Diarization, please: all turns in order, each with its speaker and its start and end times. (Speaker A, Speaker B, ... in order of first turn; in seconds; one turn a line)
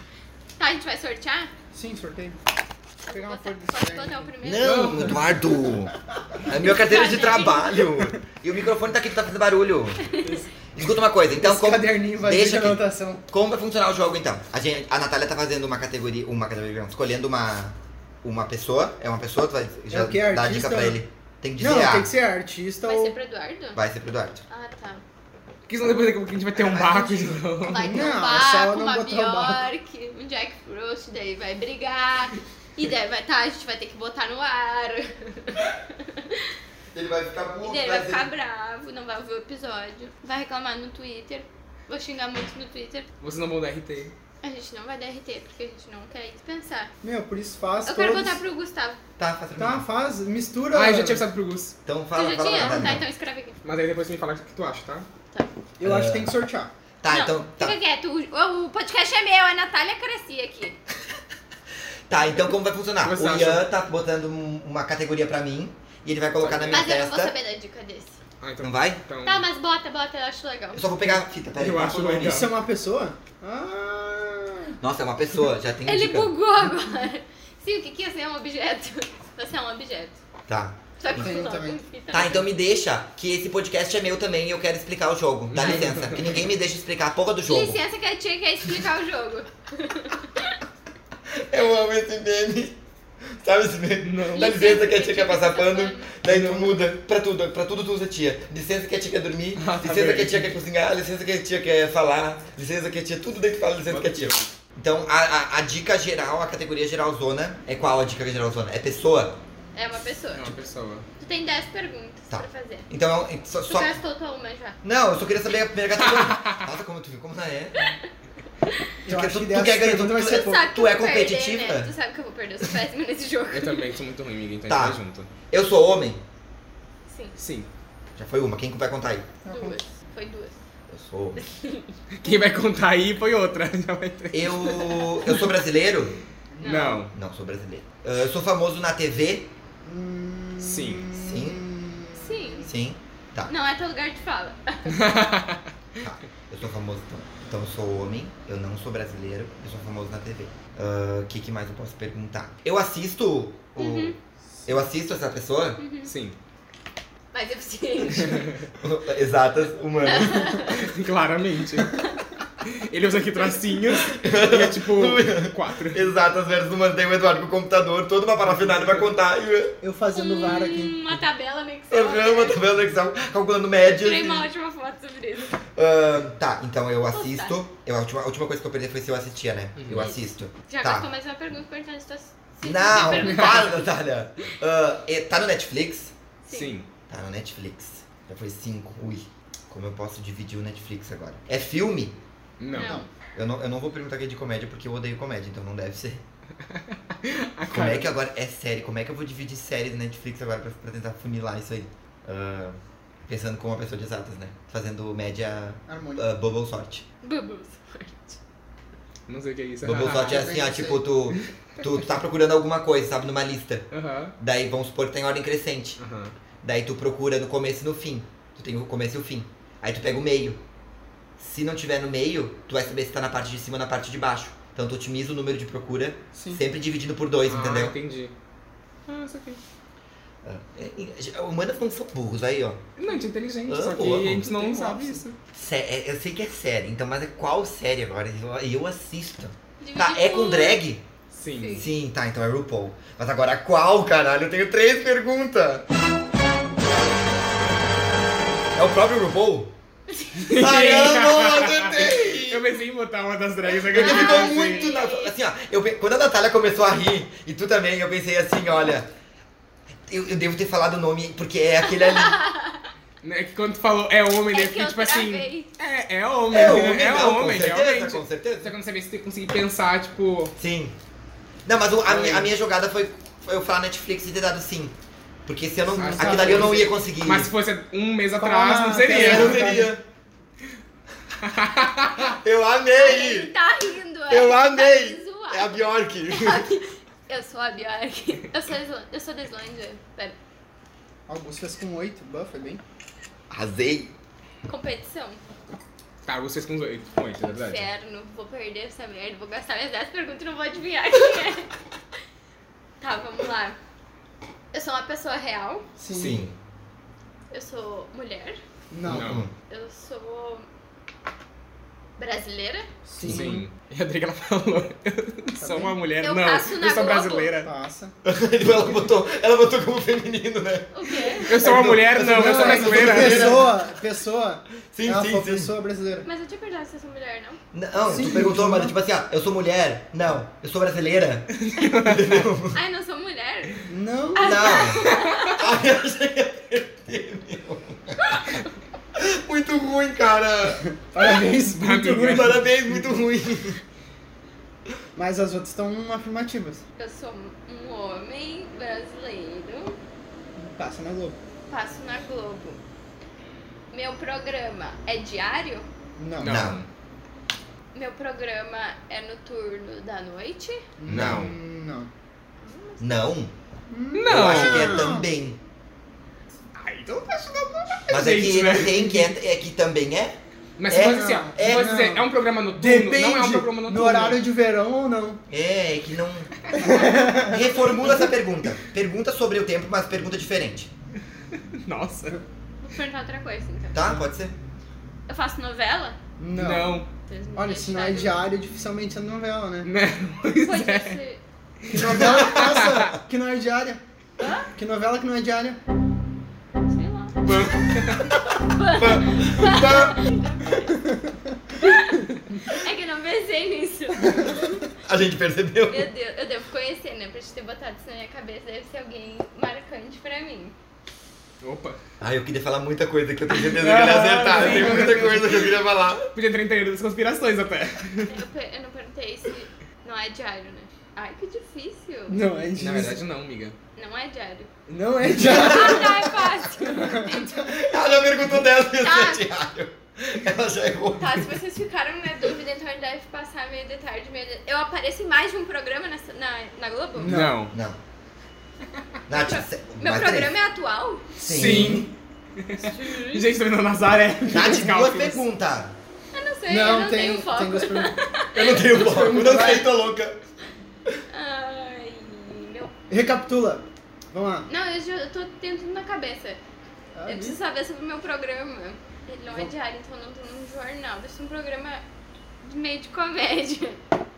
Speaker A: 0.6-1.5
Speaker B: 1.7-2.4
Speaker A: 3.0-4.9
Speaker B: 3.1-4.3
Speaker C: 4.4-10.0
Speaker D: 4.6-5.3
Speaker A: 6.5-8.0
Speaker A: 10.1-10.3
Speaker C: 10.7-22.1
Speaker B: 11.4-13.2
Speaker B: 19.9-21.0
Speaker B: 21.6-23.1
Speaker A: 22.8-23.8
Speaker C: 23.7-24.4
Speaker A: 24.5-25.0
Speaker D: 25.7-28.1
Speaker C: 26.6-27.5
Speaker A: 27.6-36.5
Speaker B: 27.8-29.6
Speaker C: 36.9-38.3
Speaker A: 37.6-43.1
Speaker D: 43.2-44.1
Speaker A: 44.4-46.9
Speaker B: 47.0-48.4
Speaker A: 47.9-49.0
Speaker C: 49.2-49.8
Speaker B: 49.6-51.2
Speaker D: 50.7-51.8
Speaker C: 51.8-53.0
Speaker A: 52.1-53.6
Speaker D: 53.6-55.1
Speaker B: 55.8-56.7
Speaker C: 55.8-56.3
Speaker C: 57.0-57.8
Speaker A: 57.1-60.8
Speaker C: 62.1-67.3
Speaker D: 63.0-63.6
Speaker D: 66.4-66.9
Speaker A: 66.7-68.2
Speaker D: 68.4-69.5
Speaker C: 68.6-69.0
Speaker A: 69.2-70.8
Speaker C: 70.7-72.4
Speaker D: 71.5-72.5
Speaker B: 72.2-74.8
Speaker C: 74.8-76.3
Speaker A: 75.8-80.2
Speaker C: 80.5-81.3
Speaker A: 81.0-82.5
Speaker B: 81.1-81.8
Speaker C: 82.1-87.8
Speaker D: 85.5-86.4
Speaker A: 87.5-90.5
Speaker C: 91.3-92.8
Speaker C: 93.3-109.4
Speaker D: 94.0-94.4
Speaker A: 94.3-96.1
Speaker D: 96.2-96.8
Speaker D: 99.6-100.5
Speaker D: 103.9-104.5
Speaker A: 109.7-110.5
Speaker D: 110.3-111.0
Speaker A: 111.2-112.9
Speaker C: 112.3-114.0
Speaker A: 113.7-114.8
Speaker C: 114.8-117.9
Speaker D: 116.1-116.5
Speaker A: 117.8-118.1
Speaker A: 118.6-118.9
Speaker B: 119.0-120.6
Speaker C: 119.1-121.9
Speaker A: 120.1-123.8
Speaker D: 123.5-125.3
Speaker C: 124.7-125.0
Speaker C: 125.5-126.2
Speaker A: 127.1-127.3
Speaker D: 127.4-127.7
Speaker C: 128.2-129.3
Speaker B: 129.4-129.8
Speaker A: 129.5-130.6
Speaker C: 130.9-131.4
Speaker A: 131.4-132.5
Speaker D: 132.2-134.8
Speaker C: 134.3-136.2
Speaker B: 136.5-137.0
Speaker A: 136.6-137.0
Speaker D: 136.6-137.1
Speaker C: 137.1-139.5
Speaker B: 139.8-142.7
Speaker D: 140.6-141.1
Speaker C: 141.1-141.6
Speaker A: 142.2-142.7
Speaker C: 142.7-143.5
Speaker A: 143.5-145.1
Speaker D: 144.9-145.7
Speaker C: 146.0-155.8
Speaker A: 153.8-154.2
Speaker A: 155.8-156.1
Speaker D: 156.0-156.3
Speaker A: 157.3-158.6
Speaker D: 158.2-158.5
Speaker C: 158.8-160.6
Speaker A: 160.0-160.8
Speaker D: 160.6-162.0
Speaker D: 162.6-166.1
Speaker C: 164.0-169.8
Speaker D: 168.6-169.0
Speaker B: 169.8-171.0
Speaker A: 170.1-172.6
Speaker C: 171.9-174.5
Speaker A: 173.8-175.6
Speaker C: 175.7-181.1
Speaker A: 177.1-177.6
Speaker D: 179.8-180.1
Speaker A: 180.7-183.8
Speaker C: 182.6-186.1
Speaker D: 183.1-183.6
Speaker A: 186.4-186.7
Speaker D: 186.5-186.9
Speaker C: 187.1-192.2
Speaker D: 192.6-193.0
Speaker A: 192.7-193.1
Speaker B: 192.8-193.1
Speaker C: 193.3-196.2
Speaker D: 196.7-198.1
Speaker C: 197.7-207.0
Speaker B: 205.9-206.2
Speaker A: 207.2-208.4
Speaker D: 209.3-210.4
Speaker C: 209.8-216.0
Speaker B: 210.1-211.0
Speaker D: 213.9-214.3
Speaker D: 216.0-216.3
Speaker C: 216.6-220.6
Speaker C: 221.4-227.9
Speaker B: 226.3-226.6
Speaker D: 227.5-228.3
Speaker D: 229.1-229.6
Speaker C: 230.4-232.8
Speaker D: 233.0-235.4
Speaker C: 233.7-234.5
Speaker B: 234.4-235.2
Speaker C: 235.5-241.0
Speaker A: 239.8-240.8
Speaker D: 241.3-241.8
Speaker A: 241.5-241.9
Speaker C: 241.8-245.8
Speaker C: 248.7-249.7
Speaker A: 250.1-250.4
Speaker D: 250.4-254.9
Speaker C: 250.5-252.6
Speaker A: 253.7-255.3
Speaker C: 253.9-259.1
Speaker C: 260.1-262.4
Speaker A: 262.0-262.8
Speaker D: 263.2-270.6
Speaker A: 264.5-265.7
Speaker C: 266.5-268.7
Speaker C: 270.6-270.9
Speaker C: 271.6-274.9
Speaker D: 272.0-272.5
Speaker C: 275.4-277.5
Speaker B: 275.9-276.9
Speaker D: 276.0-279.7
Speaker B: 278.4-279.9
Speaker C: 279.0-280.0
Speaker D: 281.4-282.3
Speaker C: 282.4-283.5
Speaker A: 282.9-290.4
Speaker C: 284.3-286.6
Speaker B: 291.3-292.8
Speaker C: 293.5-294.1
Speaker A: 294.6-295.4
Speaker D: 296.2-297.9
Speaker A: 297.4-301.7
Speaker A: 303.0-303.8
Speaker A: 304.7-305.9
Speaker B: 306.0-306.4
Speaker C: 306.1-306.5
Speaker A: 307.5-308.6
Speaker B: 308.9-309.4
Speaker D: 309.1-309.4
Speaker C: 309.1-309.5
Speaker A: 309.7-310.6
Speaker A: 312.2-312.9
Speaker B: 313.1-313.6
Speaker C: 313.2-313.5
Speaker D: 313.2-317.7
Speaker B: 315.6-315.9
Speaker A: 316.2-317.5
Speaker B: 317.6-318.1
Speaker C: 318.2-323.8
Speaker A: 320.9-321.6
Speaker D: 321.4-323.6
Speaker B: 322.3-326.3
Speaker C: 324.9-325.7
Speaker A: 326.2-327.6
Speaker C: 327.7-332.8
Speaker B: 328.0-328.9
Speaker D: 331.6-332.4
Speaker A: 332.7-335.7
Speaker B: 333.9-334.7
Speaker C: 334.4-338.4
Speaker D: 335.1-335.4
Speaker A: 338.3-338.6
Speaker C: 339.1-340.9
Speaker B: 340.8-342.6
Speaker D: 341.5-342.6
Speaker C: 342.2-343.8
Speaker B: 345.1-346.8
Speaker A: 347.0-350.0
Speaker B: 350.6-351.4
Speaker A: 351.7-352.8
Speaker A: 353.9-355.9
Speaker B: 356.2-356.7
Speaker D: 356.4-356.9
Speaker C: 356.4-356.8
Speaker A: 357.9-360.9
Speaker B: 361.0-362.1
Speaker D: 361.1-361.5
Speaker C: 361.1-361.4
Speaker A: 362.6-363.2
Speaker C: 363.0-363.5
Speaker B: 363.9-365.3
Speaker D: 364.1-365.1
Speaker C: 364.3-365.6
Speaker D: 366.8-369.3
Speaker C: 368.1-370.4
Speaker D: 370.8-374.4
Speaker C: 370.9-371.9
Speaker B: 370.9-375.4
Speaker C: 375.5-380.9
Speaker B: 376.8-378.1
Speaker D: 381.5-382.4
Speaker A: 382.8-384.1
Speaker C: 383.9-384.5
Speaker A: 385.3-386.2
Speaker B: 386.4-387.0
Speaker D: 386.5-387.1
Speaker A: 387.2-388.4
Speaker B: 387.5-389.9
Speaker D: 389.8-391.2
Speaker A: 390.6-391.4
Speaker B: 391.9-394.0
Speaker D: 391.9-393.1
Speaker C: 392.0-392.6
Speaker A: 394.4-394.7
Speaker B: 394.7-395.8
Speaker A: 396.9-397.5
Speaker D: 397.4-398.3
Speaker A: 398.1-401.1
Speaker C: 398.9-400.2
Speaker B: 401.1-401.5
Speaker A: 401.8-404.8
Speaker C: 405.0-406.1
Speaker A: 405.9-410.7
Speaker D: 411.6-412.0
Speaker C: 412.2-416.3
Speaker D: 413.5-418.4
Speaker A: 418.3-422.4
Speaker B: 422.3-423.2
Speaker D: 422.8-423.8
Speaker A: 423.9-424.7
Speaker B: 424.9-427.8
Speaker A: 425.4-427.8
Speaker C: 427.7-431.4
Speaker A: 429.0-429.4
Speaker A: 431.2-437.4
Speaker B: 437.1-437.6
Speaker D: 437.2-437.7
Speaker C: 437.7-438.0
Speaker C: 439.3-440.5
Speaker A: 439.3-441.2
Speaker C: 441.4-442.1
Speaker D: 441.4-445.4
Speaker B: 441.6-442.0
Speaker A: 442.8-443.5
Speaker C: 444.5-445.9
Speaker A: 446.3-448.9
Speaker B: 446.7-448.1
Speaker C: 448.5-450.4
Speaker B: 448.8-449.9
Speaker A: 451.3-452.9
Speaker B: 453.1-454.7
Speaker A: 454.7-456.6
Speaker B: 457.1-457.6
Speaker A: 457.3-462.0
Speaker A: 462.6-464.0